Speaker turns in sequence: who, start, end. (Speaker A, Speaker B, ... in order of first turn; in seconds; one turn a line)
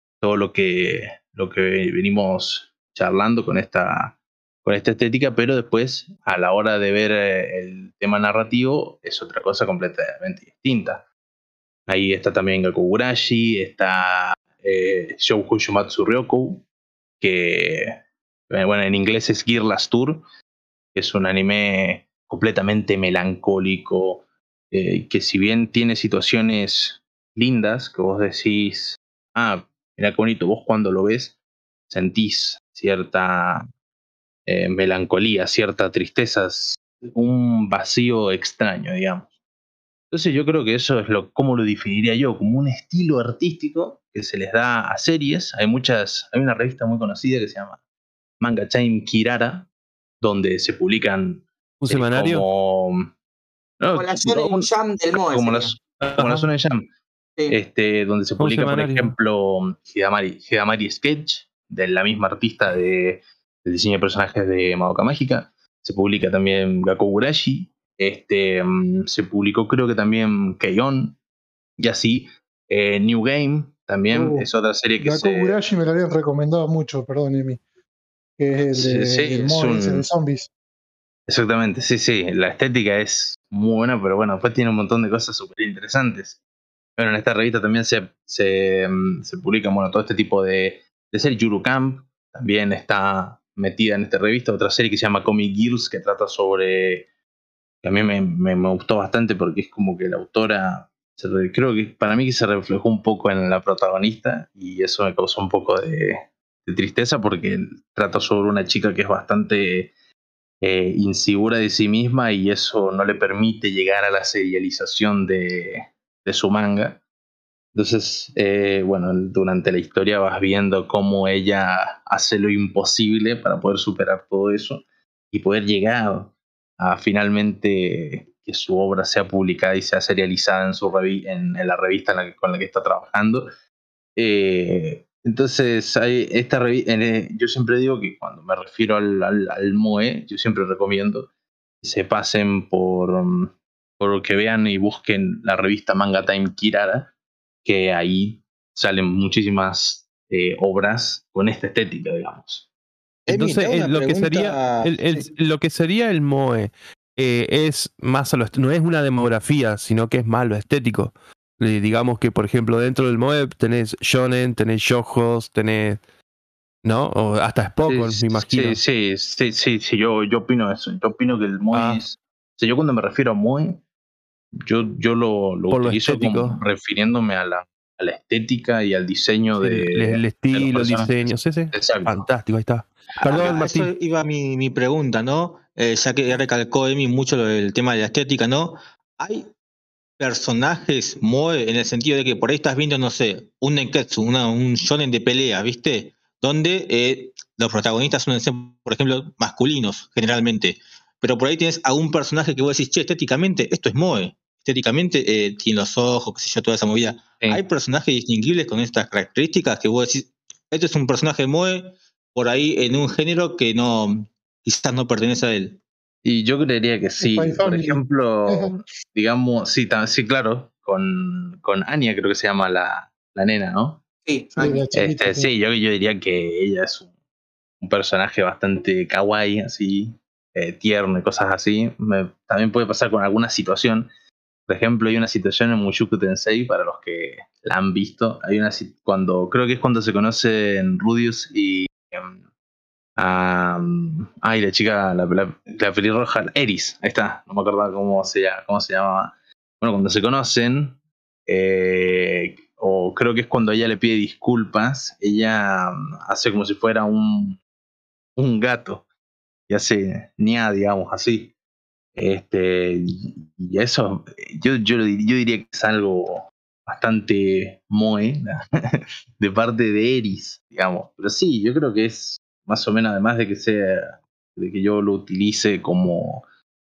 Speaker A: 0.2-11.1
Speaker A: 11.9-16.6
Speaker A: 17.2-18.0
Speaker A: 18.5-20.2
Speaker A: 20.9-31.4
Speaker A: 31.9-33.7
Speaker A: 34.5-39.3
Speaker A: 40.1-47.8
Speaker A: 48.4-49.7
Speaker A: 50.2-53.1
Speaker B: 51.8-52.5
Speaker A: 53.8-56.8
Speaker C: 53.9-55.7
Speaker B: 56.1-56.5
Speaker A: 57.5-71.2
Speaker B: 58.4-59.1
Speaker A: 71.8-75.6
Speaker D: 74.1-74.5
Speaker D: 75.0-77.6
Speaker D: 78.4-80.5
Speaker A: 78.7-80.1
Speaker A: 81.3-86.4
Speaker A: 87.0-97.1
Speaker A: 97.8-109.9
Speaker A: 110.6-117.0
Speaker A: 117.7-133.5
Speaker A: 134.2-141.3
Speaker A: 141.8-147.1
Speaker A: 147.6-152.7
Speaker E: 153.3-155.3
Speaker B: 153.3-166.0
Speaker B: 166.8-168.8
Speaker A: 167.9-173.8
Speaker B: 171.7-172.0
Speaker A: 174.7-181.1
Speaker B: 175.7-176.6
Speaker B: 179.6-183.9
Speaker A: 181.7-182.3
Speaker E: 183.2-189.5
Speaker E: 190.2-215.8
Speaker A: 216.2-224.0
Speaker D: 217.2-218.8
Speaker C: 224.2-224.9
Speaker D: 224.5-225.5
Speaker A: 224.9-227.1
Speaker A: 227.8-234.1
Speaker A: 234.7-242.4
Speaker A: 243.2-257.6
Speaker A: 258.4-259.1
Speaker A: 259.7-261.5
Speaker A: 262.2-276.4